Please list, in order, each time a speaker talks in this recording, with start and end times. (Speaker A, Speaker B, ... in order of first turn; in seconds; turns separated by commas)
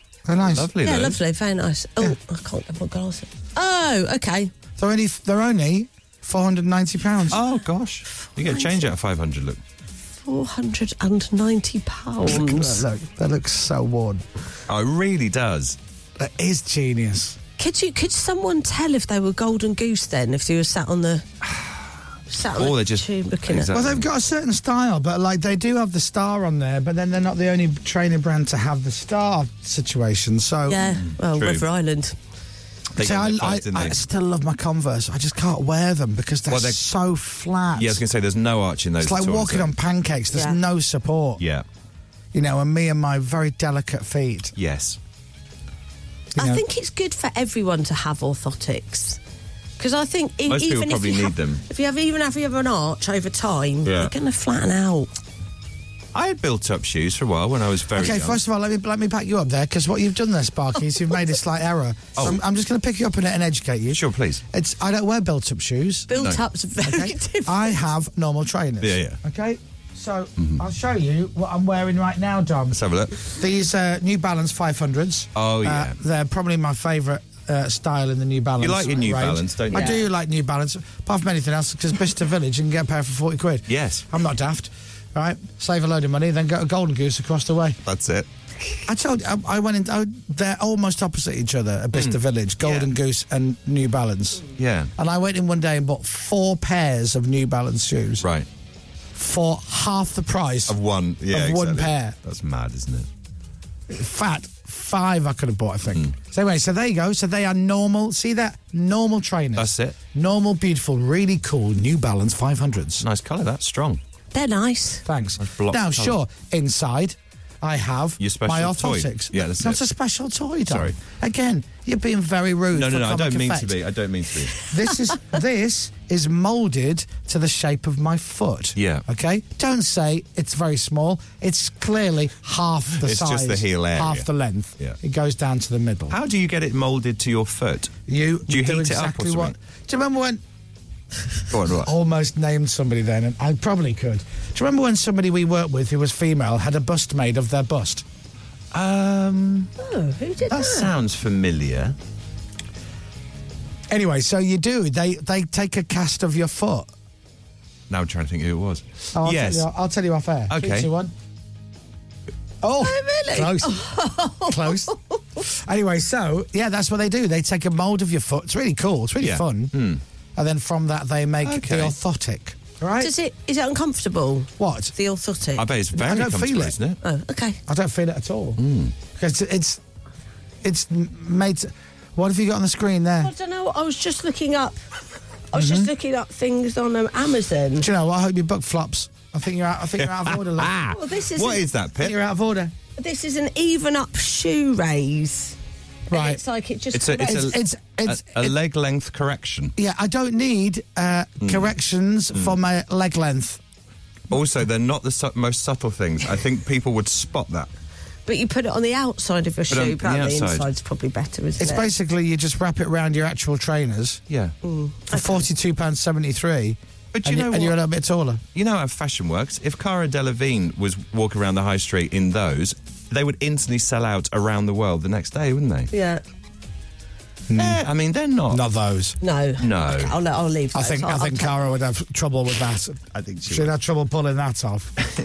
Speaker A: 0.2-0.7, Speaker B: 0.4-1.2, Speaker C: 0.8-4.5, Speaker A: 4.8-7.4, Speaker B: 7.3-9.6, Speaker C: 8.2-8.9, Speaker C: 10.2-12.8, Speaker A: 12.2-14.2, Speaker B: 14.7-15.8, Speaker A: 16.2-17.4, Speaker C: 17.6-21.2, Speaker B: 21.4-21.8, Speaker C: 22.3-23.7, Speaker B: 22.5-24.1, Speaker A: 23.7-30.9, Speaker C: 30.6-32.1, Speaker B: 30.9-31.6, Speaker B: 33.0-34.0, Speaker A: 33.0-38.0, Speaker B: 36.5-36.8, Speaker B: 37.8-39.7, Speaker A: 39.0-41.4, Speaker C: 40.3-40.6, Speaker B: 41.4-41.6, Speaker A: 42.3-44.5, Speaker B: 44.6-45.0, Speaker A: 46.4-46.6, Speaker C: 46.4-49.2, Speaker C: 49.8-55.1, Speaker B: 50.5-51.6, Speaker B: 53.8-54.1, Speaker B: 56.1-58.4, Speaker A: 57.9-66.1, Speaker B: 63.9-64.4, Speaker C: 66.1-67.8, Speaker B: 66.1-66.4, Speaker A: 66.8-87.8, Speaker B: 68.8-69.2, Speaker B: 70.4-70.6, Speaker B: 72.7-73.2, Speaker B: 75.3-76.0, Speaker B: 78.6-80.0, Speaker C: 79.7-80.0, Speaker B: 83.7-84.0, Speaker B: 87.8-88.3, Speaker A: 88.8-98.2, Speaker B: 91.9-92.9, Speaker B: 94.6-94.9, Speaker B: 98.2-98.5, Speaker A: 99.1-100.8, Speaker B: 100.7-103.1, Speaker A: 101.3-102.2, Speaker A: 103.9-113.0, Speaker B: 109.6-110.0, Speaker B: 113.0-114.0, Speaker C: 114.3-115.0, Speaker A: 115.0-123.8, Speaker B: 115.4-116.2, Speaker B: 118.2-119.8, Speaker B: 120.7-121.0, Speaker B: 122.7-124.6, Speaker A: 124.6-136.2, Speaker B: 128.8-129.0, Speaker B: 133.0-134.3, Speaker B: 136.1-137.9, Speaker A: 138.1-140.4, Speaker B: 138.5-139.6, Speaker B: 141.5-141.9, Speaker A: 141.8-148.0, Speaker B: 148.7-149.7, Speaker C: 149.8-150.9, Speaker B: 150.5-151.9, Speaker A: 153.9-156.9, Speaker B: 157.9-159.7, Speaker A: 159.1-161.1, Speaker B: 160.5-160.9, Speaker A: 162.6-169.7, Speaker C: 162.8-165.4, Speaker B: 169.2-170.0, Speaker A: 170.3-173.1, Speaker B: 171.4-171.9, Speaker C: 173.0-175.7, Speaker A: 174.6-174.9, Speaker B: 175.6-177.0, Speaker A: 175.9-176.8, Speaker C: 177.0-177.6, Speaker A: 177.7-178.6, Speaker B: 178.6-178.9, Speaker A: 179.2-179.8, Speaker A: 180.6-183.3, Speaker C: 183.2-184.8, Speaker C: 185.5-187.9, Speaker A: 185.5-185.9, Speaker A: 187.8-191.0, Speaker B: 190.0-190.8, Speaker C: 190.9-191.6, Speaker B: 191.3-192.2, Speaker A: 192.0-192.7, Speaker C: 193.0-195.6, Speaker A: 196.1-196.4, Speaker C: 196.1-197.6, Speaker B: 196.9-199.7, Speaker A: 197.2-198.5, Speaker A: 199.8-203.6, Speaker B: 201.4-201.7, Speaker B: 204.3-207.7, Speaker C: 208.3-211.9, Speaker B: 209.7-210.7, Speaker A: 211.6-214.2, Speaker C: 214.6-215.5, Speaker A: 215.1-218.4, Speaker B: 217.1-217.8, Speaker B: 218.5-225.9, Speaker C: 225.9-226.2, Speaker A: 227.5-227.8, Speaker B: 227.5-228.6, Speaker A: 228.5-229.2, Speaker C: 229.2-231.7, Speaker B: 229.6-230.2, Speaker A: 230.7-235.0, Speaker B: 233.1-233.7